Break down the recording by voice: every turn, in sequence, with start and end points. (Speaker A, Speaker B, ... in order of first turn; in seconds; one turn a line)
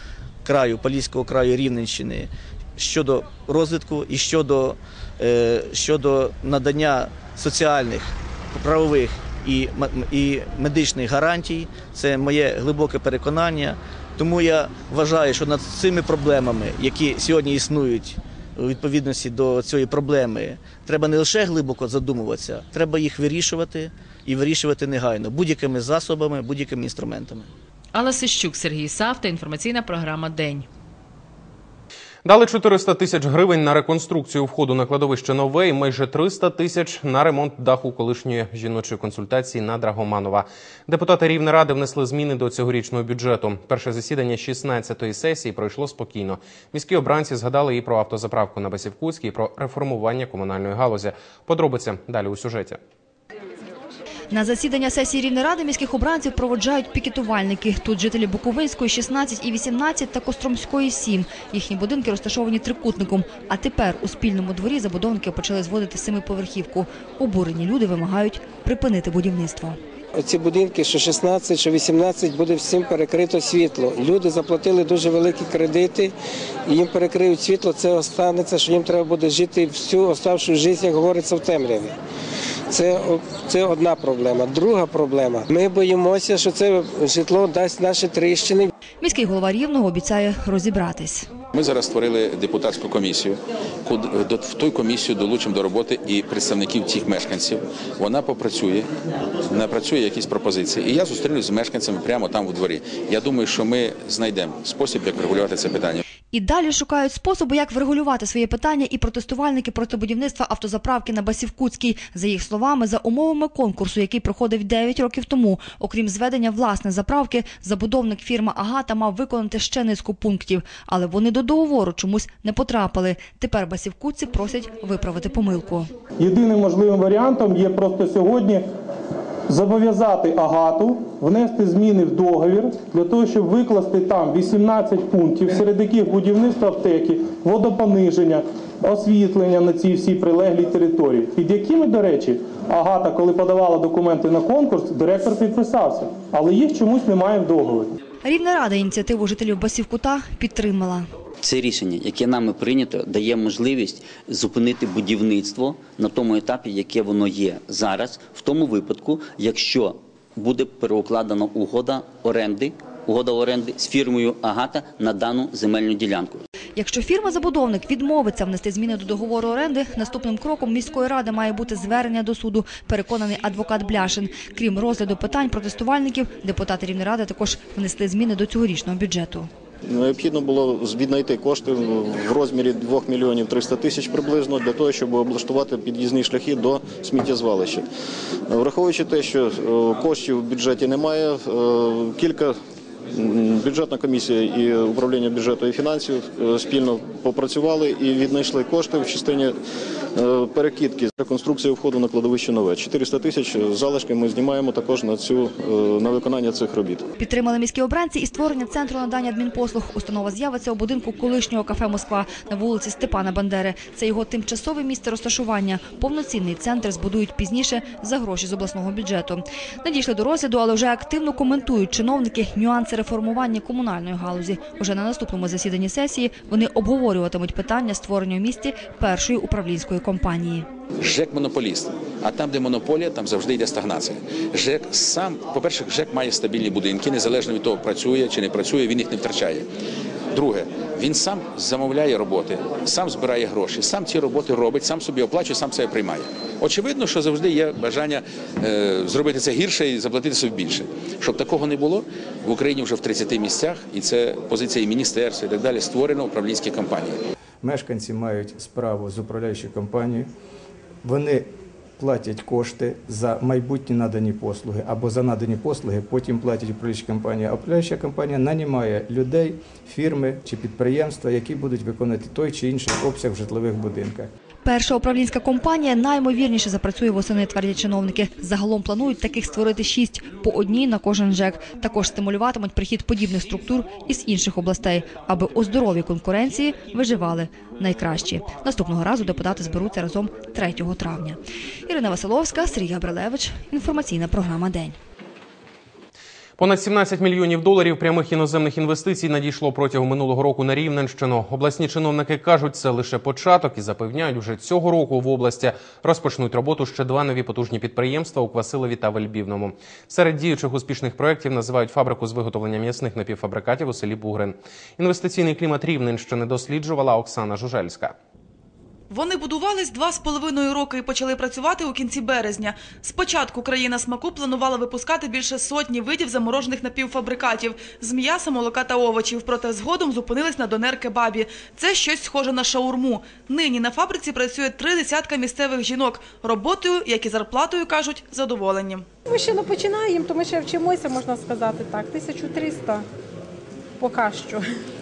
Speaker A: 0.5-27.5
Speaker B: 27.9-30.7
Speaker C: 32.2-52.8
Speaker D: 54.3-69.8
Speaker E: 70.2-76.1
Speaker E: 76.7-81.9
Speaker E: 82.7-88.7
Speaker D: 89.0-91.3
Speaker F: 91.5-98.9
Speaker F: 99.5-106.0
Speaker D: 106.3-125.9
Speaker G: 126.2-128.7
Speaker G: 129.5-147.9
Speaker D: 148.2-151.1
Speaker H: 151.4-166.4
Speaker D: 166.8-179.5
Speaker I: 179.8-187.9
Speaker I: 188.5-192.6
Speaker I: 193.1-199.6
Speaker I: 200.2-207.1
Speaker D: 207.2-230.7
Speaker F: 231.0-239.7
Speaker F: 240.3-257.2
Speaker J: 257.6-260.3
Speaker J: 261.0-261.5
Speaker J: 262.0-274.3
Speaker D: 274.6-295.0
Speaker C: 296.6-318.1
Speaker K: 319.1-339.1
Speaker L: 339.3-343.0
Speaker L: 344.0-344.6